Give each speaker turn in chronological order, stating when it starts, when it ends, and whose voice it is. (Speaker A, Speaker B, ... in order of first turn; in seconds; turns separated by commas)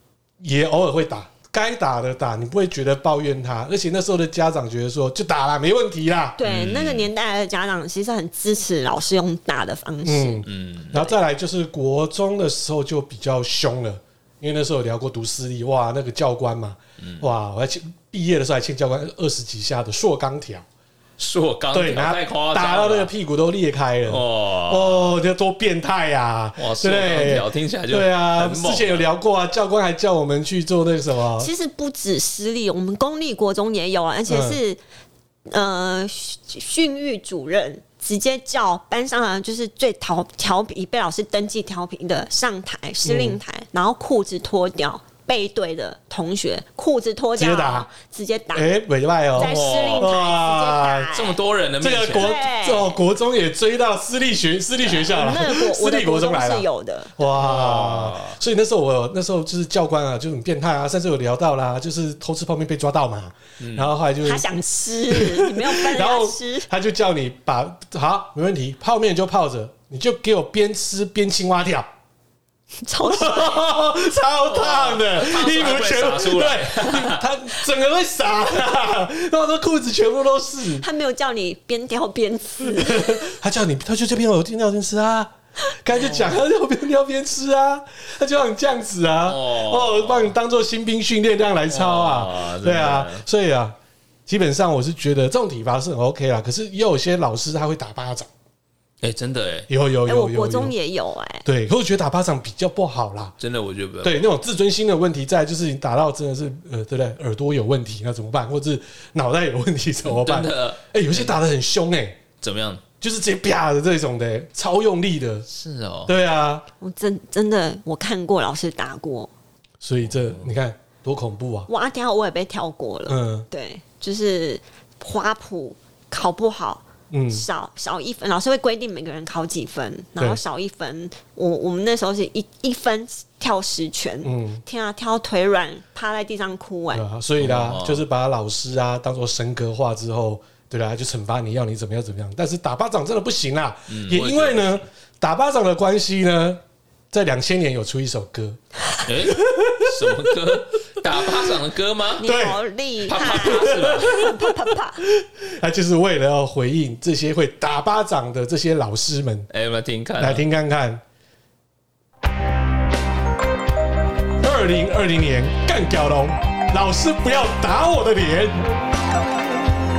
Speaker A: 0.4-6.4, Speaker B: 6.4-10.5, Speaker C: 6.4-7.1, Speaker A: 10.0-20.6, Speaker C: 10.5-11.0, Speaker C: 17.0-17.3, Speaker C: 21.2-23.1, Speaker A: 21.7-31.5, Speaker C: 24.1-25.1, Speaker C: 26.6-29.1, Speaker B: 31.4-34.8, Speaker A: 34.3-34.6, Speaker B: 35.5-48.7, Speaker A: 43.0-43.4, Speaker A: 47.4-47.9, Speaker A: 48.5-51.1, Speaker C: 49.4-50.1, Speaker B: 49.4-51.4, Speaker C: 51.1-52.3, Speaker A: 51.8-56.7, Speaker B: 52.1-53.0, Speaker B: 54.8-57.1, Speaker A: 57.2-64.5, Speaker C: 57.4-58.4, Speaker C: 63.6-63.9, Speaker B: 64.2-66.7, Speaker A: 65.1-71.9, Speaker B: 72.8-73.7, Speaker A: 73.0-80.8, Speaker C: 74.5-77.2, Speaker B: 80.8-83.2, Speaker A: 82.7-93.8, Speaker C: 89.3-90.3, Speaker C: 91.7-93.2, Speaker A: 94.3-98.3, Speaker C: 99.0-99.7, Speaker A: 99.7-100.7, Speaker B: 100.1-101.5, Speaker A: 101.5-103.3, Speaker C: 103.4-104.3, Speaker A: 104.0-112.2, Speaker C: 110.0-111.3, Speaker C: 112.4-112.8, Speaker A: 113.0-115.5, Speaker C: 115.5-116.1, Speaker A: 116.1-116.7, Speaker B: 116.8-119.3, Speaker A: 119.8-121.7, Speaker B: 121.7-137.1, Speaker A: 123.1-123.5, Speaker A: 127.1-127.4, Speaker A: 134.2-134.6, Speaker A: 136.9-146.6, Speaker C: 137.4-138.0, Speaker C: 143.9-144.8, Speaker A: 147.1-148.6, Speaker C: 149.1-152.2, Speaker A: 149.2-150.3, Speaker B: 152.2-155.0, Speaker A: 152.2-152.6, Speaker C: 153.1-154.2, Speaker A: 153.2-154.2, Speaker A: 155.2-159.5, Speaker C: 159.5-160.4, Speaker A: 160.2-161.0, Speaker A: 164.4-168.6